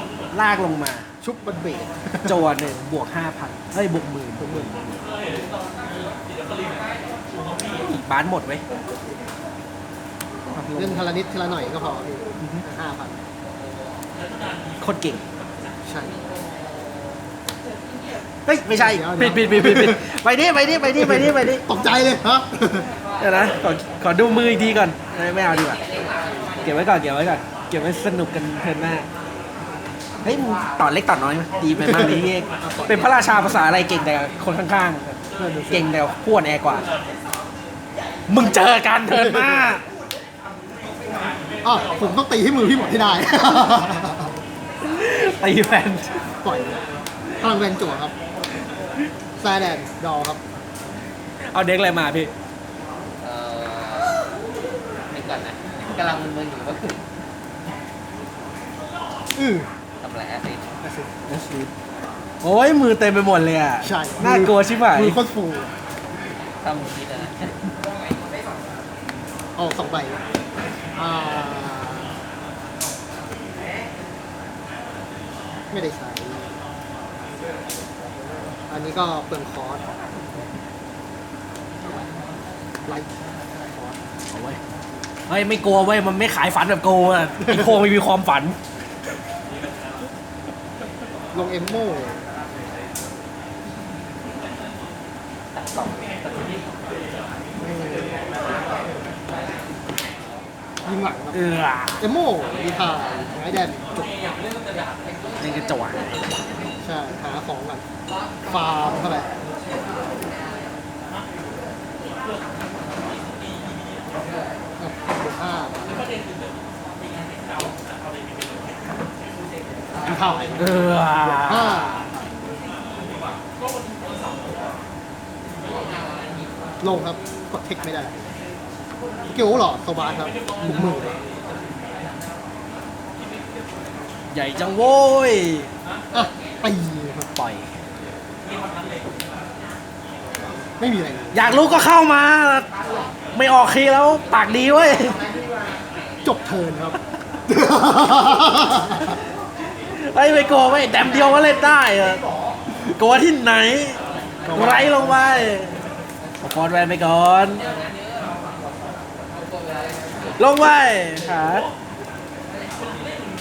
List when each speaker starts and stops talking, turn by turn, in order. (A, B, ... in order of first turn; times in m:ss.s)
0:00.3-0:01.1 A
0:01.2-0:02.4 B
0:02.2-0:05.0 A
0:04.4-0:04.7 B
0:07.8-0:08.6 A
0:10.5-0:11.1 A
0:10.7-0:13.2 B
0:14.8-0:15.2 A
0:15.8-0:16.2 B
0:18.4-0:21.6 A
0:18.7-0:20.0 B
0:20.9-0:22.9 B
0:23.2-0:25.8 A
0:26.6-0:29.1 A
0:30.2-0:35.2 A
0:31.8-0:33.1 B
0:35.4-0:35.9 B
0:35.7-0:36.8 A
0:38.3-0:39.8 A
0:39.1-0:39.6 B
0:41.6-0:44.3 B
0:44.8-0:46.2 A
0:46.4-0:46.9 B
0:47.4-0:48.1 B
0:49.4-0:50.4 B
0:51.5-0:52.3 A
0:53.2-0:54.2 C
0:55.1-0:57.0 C
0:59.4-0:59.7 B
1:00.0-1:00.7 C
1:00.8-1:01.1 B
1:01.3-1:01.7 A
1:02.4-1:05.2 A
1:03.8-1:05.7 B
1:06.6-1:07.6 C
1:09.6-1:10.2 B
1:11.0-1:12.1 B
1:15.7-1:16.5 B
1:18.7-1:19.8 B
1:23.6-1:24.0 B
1:24.3-1:24.6 A
1:25.3-1:28.6 A
1:27.4-1:27.8 B
1:31.3-1:32.2 B
1:37.6-1:38.3 B
1:40.8-1:41.4 B
1:41.3-1:42.0 A
1:42.0-1:44.2 B
1:45.4-1:46.2 A
1:46.8-1:47.8 B
1:48.4-1:49.3 B
1:54.8-1:55.9 B
2:00.0-2:02.4 B
2:00.6-2:01.9 A
2:06.8-2:08.2 B
2:09.3-2:11.2 B
2:14.3-2:15.7 A
2:16.1-2:17.3 B
2:17.4-2:17.6 A
2:20.8-2:21.8 B
2:21.3-2:22.7 A
2:23.3-2:25.2 A
2:26.2-2:27.0 B
2:27.5-2:29.2 B
2:29.9-2:32.2 A
2:32.8-2:34.0 A
2:34.4-2:35.2 B
2:34.5-2:35.8 A
2:36.4-2:37.6 A
2:40.0-2:40.3 C
2:40.4-2:41.7 A